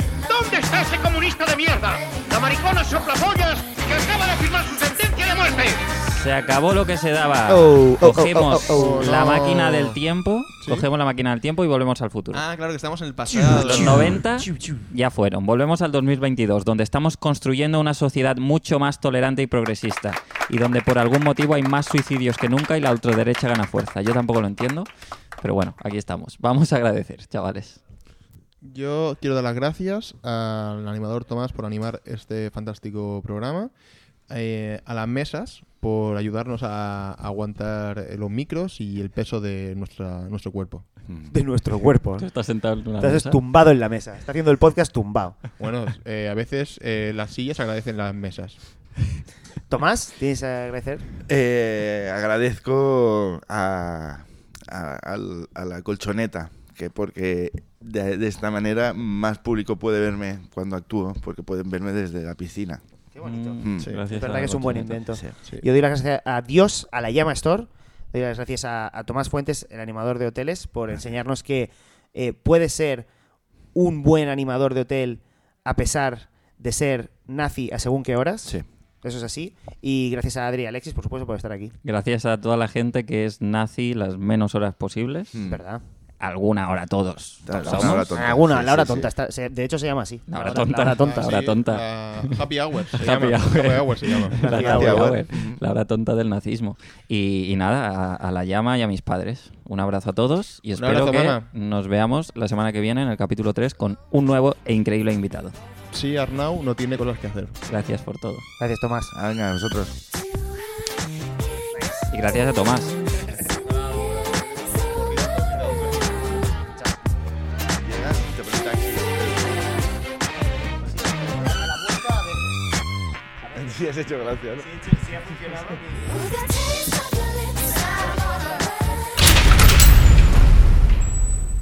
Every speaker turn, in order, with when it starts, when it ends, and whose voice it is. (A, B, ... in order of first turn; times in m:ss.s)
0:00.3-0:05.8 A
0:05.9-0:12.4 B
0:07.5-0:09.4 C
0:08.7-0:10.0 D
0:10.6-0:10.8 D
0:12.3-0:14.2 D
0:13.5-0:27.8 B
0:28.6-0:33.7 D
0:34.3-0:40.9 D
0:41.0-0:41.3 E
0:41.3-0:42.3 C
0:42.2-0:43.4 B
0:43.0-0:45.5 C
0:45.6-0:48.6 D
0:49.7-0:51.1 C
0:51.3-1:02.8 E
1:03.1-1:13.1 C
1:03.2-1:05.0 B
1:03.6-1:03.9 E
1:05.4-1:05.6 D
1:13.7-1:21.7 C
1:21.8-1:25.4 B
1:25.3-1:25.6 E
1:25.4-1:25.8 C
1:26.2-1:28.2 B
1:27.4-1:29.1 E
1:27.5-1:31.5 C
1:30.3-1:32.4 B
1:30.9-1:34.5 D
1:32.9-1:45.5 B
1:34.4-1:35.2 C
1:34.5-1:35.6 E
1:40.7-1:41.5 D
1:45.9-1:47.5 D
1:47.7-1:48.4 B
1:48.6-1:49.1 C
1:49.1-1:50.0 E
1:51.7-1:52.1 C
1:52.1-1:52.9 B
1:53.2-1:53.5 C
1:54.5-1:57.1 C
1:54.6-1:55.2 D
1:57.8-1:59.7 E
2:00.6-2:02.7 C
2:03.4-2:03.8 C
2:03.5-2:04.7 E
2:04.5-2:09.4 C